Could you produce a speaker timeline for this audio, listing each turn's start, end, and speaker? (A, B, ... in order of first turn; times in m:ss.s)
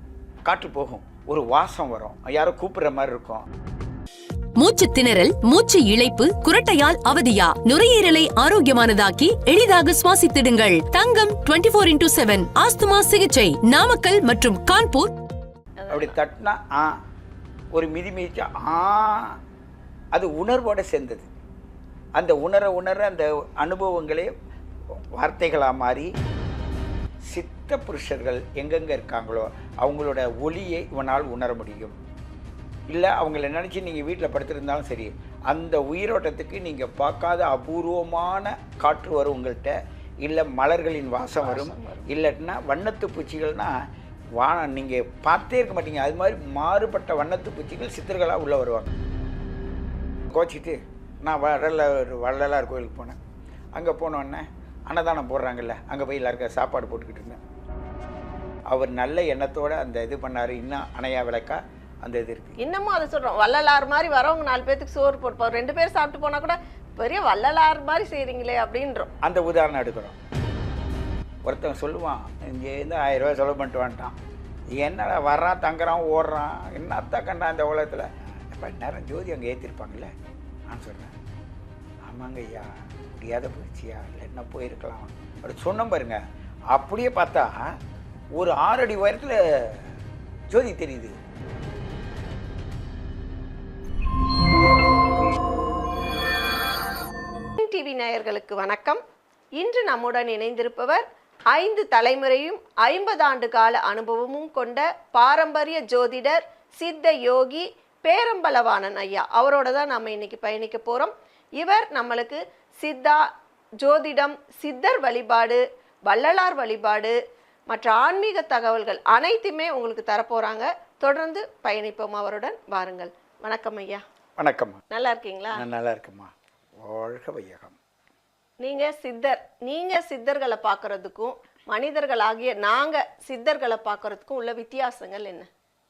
0:00.4-0:03.5 A
0:04.6-0:15.1 B
0:15.8-0:16.2 C
0:15.9-0:17.0 A
0:17.7-0:19.4 A
0:20.1-0:21.3 A
0:22.2-0:24.3 A
0:25.2-0:26.1 A
0:27.3-0:32.0 A
0:32.9-0:43.8 A
0:41.2-0:42.1 C
0:44.4-0:49.0 A
0:50.3-0:53.2 A
0:53.8-0:57.4 A
0:58.7-1:02.6 A
1:02.6-1:09.1 C
1:09.2-1:10.2 A
1:11.5-1:14.2 A
1:14.7-1:20.1 A
1:20.7-1:21.1 A
1:22.0-1:26.2 A
1:26.7-1:27.7 A
1:28.4-1:29.9 A
1:30.5-1:31.2 A
1:37.6-1:39.0 C
1:39.6-1:53.3 C
1:53.8-1:57.2 C
1:57.7-2:04.0 C
2:04.4-2:04.8 A
2:04.9-2:05.6 C
2:05.5-2:07.8 A
2:08.6-2:15.5 C